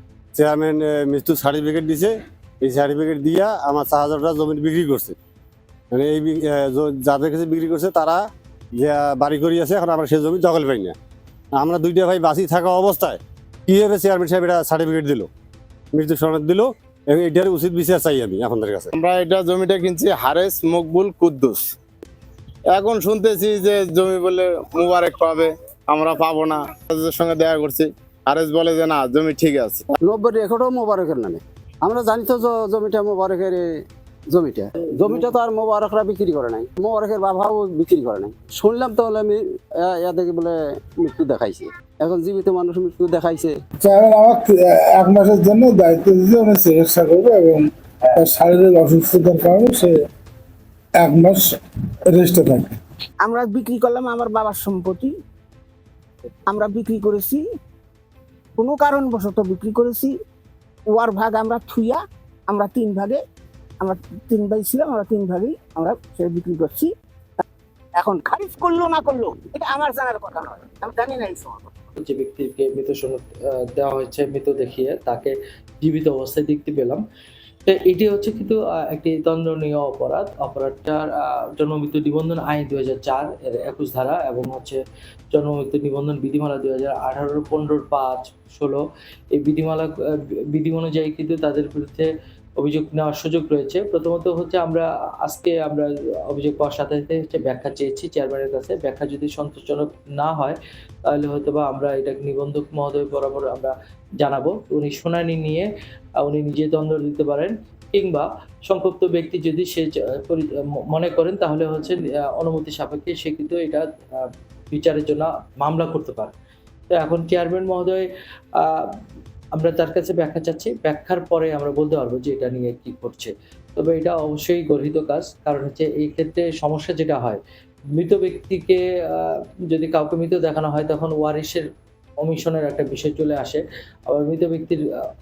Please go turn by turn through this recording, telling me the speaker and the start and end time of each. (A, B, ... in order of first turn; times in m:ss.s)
0:00.3-0:05.2 A
0:05.9-0:08.2 A
0:08.8-0:10.9 A
0:11.6-0:15.3 A
0:15.9-0:18.9 A
0:19.0-0:21.6 B
0:22.7-0:29.8 B
0:30.1-0:33.6 C
0:34.3-0:43.5 C
0:43.8-0:50.0 D
0:51.0-0:51.6 D
0:52.1-0:52.8 D
0:53.2-0:55.1 E
0:56.5-0:57.4 E
0:58.6-1:00.1 E
1:00.9-1:03.2 E
1:03.8-1:06.9 E
1:08.0-1:11.7 E
1:12.0-1:17.0 F
1:17.7-1:24.8 F
1:25.3-1:28.8 F
1:29.3-1:40.6 F
1:41.1-1:45.7 F
1:46.2-1:56.3 F
1:56.9-1:58.1 F
1:58.6-1:58.9 F
1:59.5-2:07.4 F
2:08.0-2:11.7 F
2:12.2-2:14.8 F